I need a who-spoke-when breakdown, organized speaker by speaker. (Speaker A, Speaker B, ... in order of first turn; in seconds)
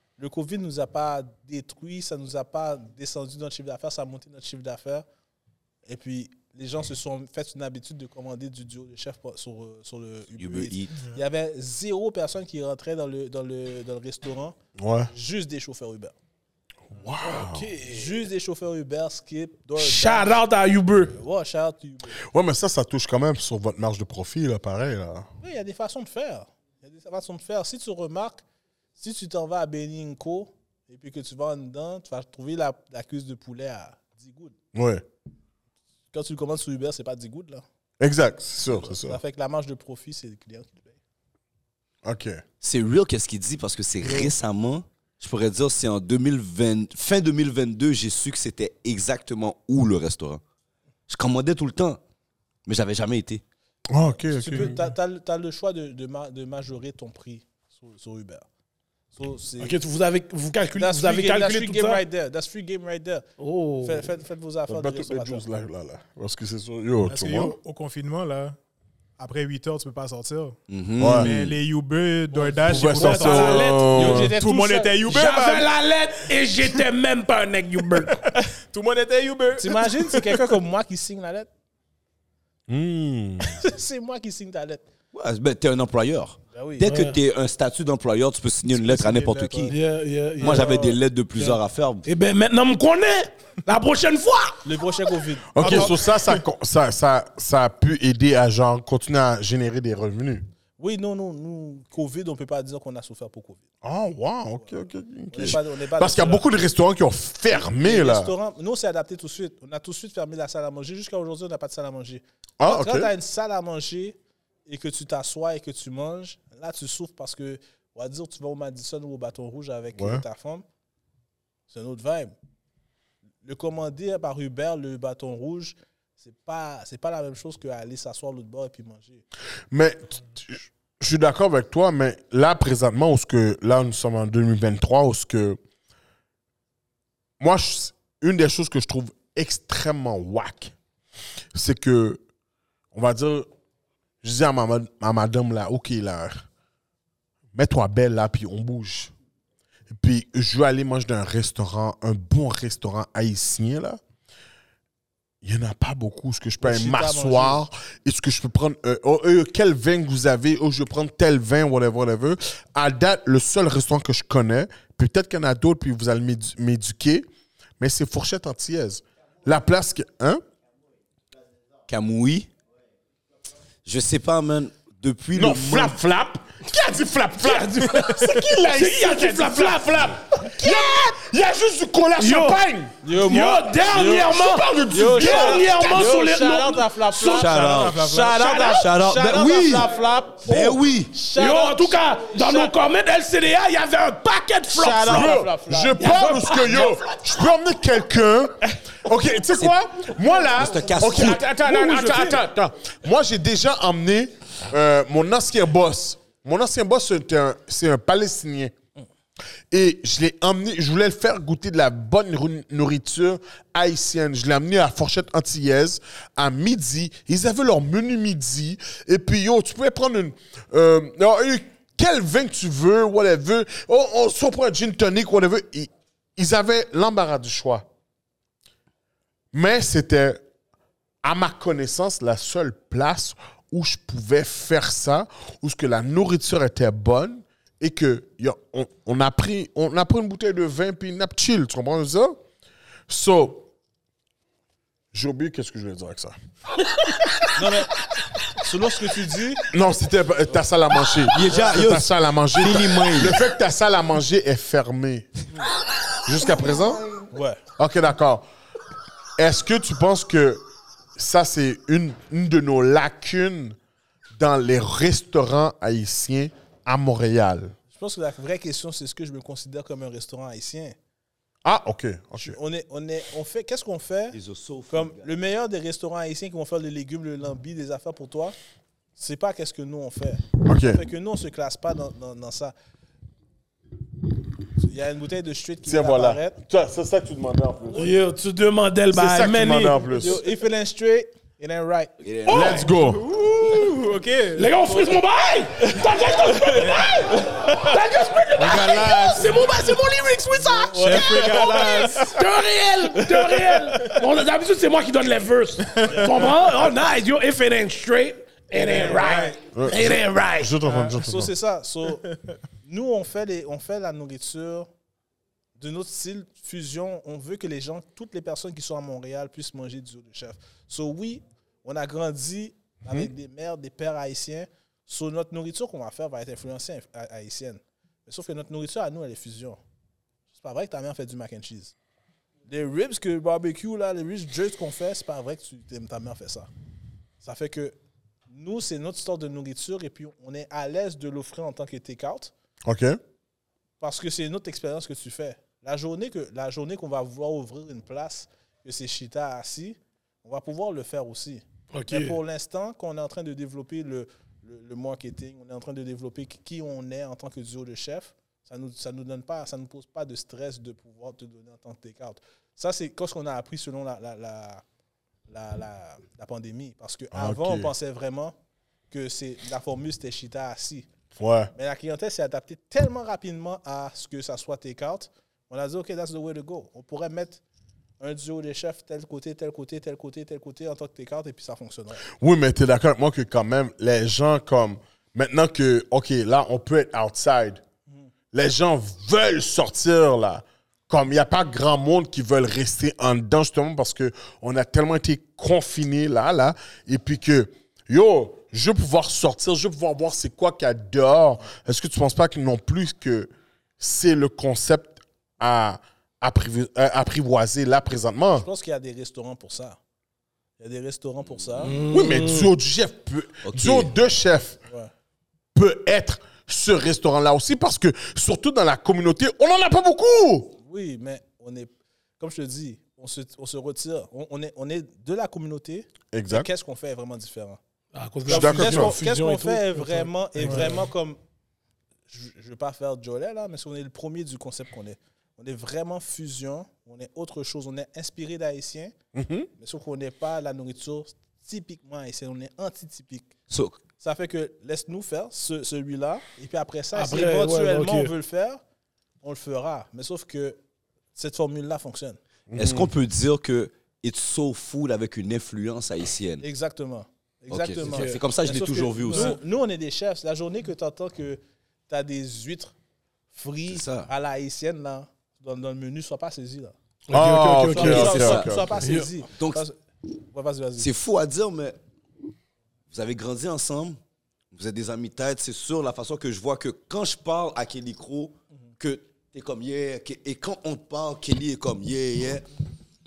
Speaker A: 0.2-5.0, 5.9-14.6, 15.1-16.1, 17.9-20.4, 21.1-22.2, 25.4-28.4, 29.0-34.6, 36.1-37.6, 38.8-41.0, 54.2-58.5, 59.1-59.8, 60.8-63.2, 63.8-65.4, 73.0-75.0, 79.6-81.5, 83.6-84.8, 86.5-86.9, 90.5-90.8, 94.6-96.1, 100.8-103.7, 105.3-106.5, 107.5-120.7, 121.7-122.3, 123.4-129.2, 156.6-157.6, 183.0-184.3, 184.9-192.7, 194.7-196.1, 200.6-201.0, 247.6-247.9, 248.6-249.6, 251.4-251.8, 257.3-257.6, 267.9-271.0, 272.4-274.4, 274.9-278.6, 279.2-282.7, 284.8-286.6, 290.1-292.9, 300.6-302.3, 311.2-312.2, 312.8-314.9, 315.8-329.8, 330.5-331.9, 332.7-336.7, 337.4-337.9, 338.5-342.5, 344.0-364.8, 365.5-368.6, 369.1-371.1, 371.8-377.6, 378.2-382.2, 408.6-410.0, 410.8-412.0, 420.8-427.8, 428.5-431.4, 432.3-439.1, 439.8-443.5, 444.2-448.8, 449.4-450.8, 451.4-452.4, 456.6-462.9, 463.5-466.9, 467.9-471.1
Speaker B: 10.4-10.9, 42.6-50.4, 51.1-52.0, 52.7-53.4, 70.7-71.6, 85.1-89.7, 90.4-92.1, 171.9-172.5, 173.8-176.0, 187.2-189.9, 190.4-191.1, 200.5-201.4, 251.2-253.4, 274.3-275.3, 292.2-292.9, 413.6-414.1, 443.7-444.0, 452.8-456.6, 457.7-459.6, 463.9-464.3, 468.2-468.9, 469.5-469.8, 471.0-472.0, 473.1-474.2, 474.7-482.7
Speaker C: 14.8-15.1, 16.9-17.7, 22.3-25.3, 34.7-35.0, 38.0-39.2, 42.0-42.4, 53.9-54.9, 64.7-67.6, 71.0-71.3, 72.6-74.3, 82.7-83.6, 95.5-100.5, 103.8-108.3, 112.6-113.1, 120.0-120.2, 129.7-135.6, 137.4-140.7, 141.6-142.2, 142.9-143.5, 144.2-146.5, 147.5-149.1, 149.9-154.0, 155.4-167.3, 167.8-170.4, 175.3-182.9, 184.0-186.1, 195.1-208.7, 209.7-227.9, 229.5-230.4, 231.2-242.4, 243.1-243.7, 245.1-246.3, 249.7-255.3, 256.2-257.1, 257.8-258.4, 259.4-260.6, 261.2-263.8, 264.4-267.8, 271.6-272.6, 280.6-281.0, 285.9-288.1, 289.1-290.4, 292.5-293.2, 309.7-311.5, 342.9-343.2, 367.3-367.9, 371.4-371.7, 382.4-387.8, 388.5-408.7, 412.1-414.8, 415.8-420.8, 426.3-426.7, 428.5-429.2, 439.4-439.7, 452.7-453.1, 467.3-468.9
Speaker D: 17.2-18.2, 19.8-21.2, 59.6-62.0, 63.4-64.1, 72.9-74.2, 75.1-78.2, 86.8-87.2, 89.7-94.6, 177.4-180.5, 182.2-187.8, 191.3-195.4, 196.0-197.2, 201.6-202.4, 287.9-290.0, 294.6-310.7, 351.9-352.4, 411.8-412.7, 428.1-431.0, 447.1-448.3, 458.1-458.4, 459.3-459.6, 467.3-469.3
Speaker E: 67.1-68.6, 69.2-70.6, 71.2-75.7, 78.0-80.5, 88.9-89.7, 292.6-295.1, 295.9-298.0, 298.6-299.9, 301.0-302.4, 303.5-304.2, 305.9-306.5, 308.8-309.6, 310.8-311.2, 312.1-312.6, 430.6-431.0